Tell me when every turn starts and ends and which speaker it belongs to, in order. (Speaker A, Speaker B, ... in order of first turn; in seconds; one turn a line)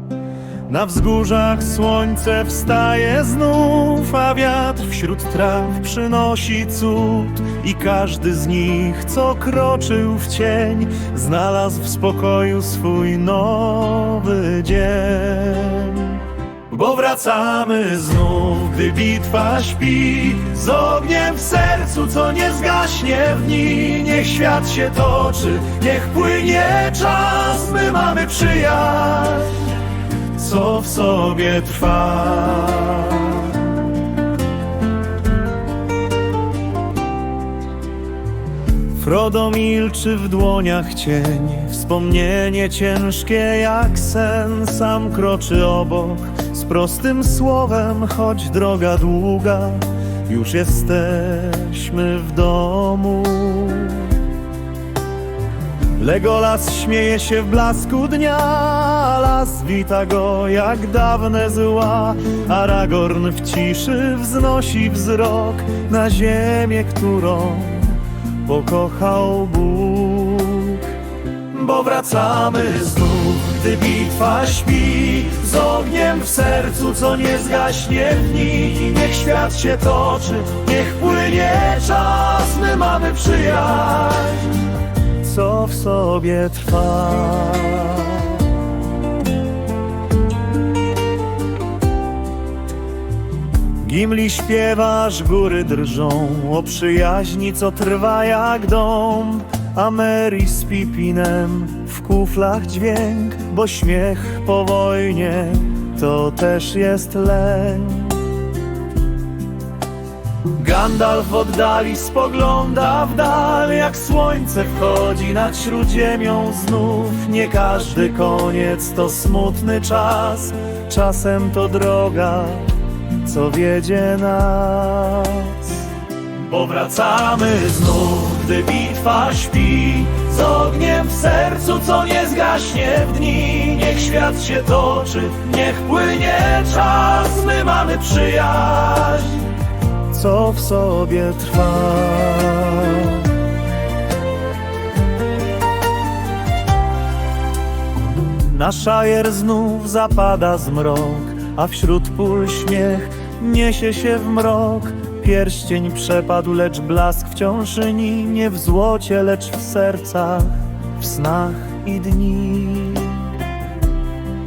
Speaker A: 0.7-29.7
Speaker A: 30.3-33.8
Speaker A: 39.0-54.3
Speaker A: 56.0-71.0
Speaker A: 71.5-84.7
Speaker A: 85.2-88.6
Speaker A: 93.8-108.4
Speaker A: 110.5-139.5
Speaker A: 140.1-143.3
Speaker A: 148.1-163.4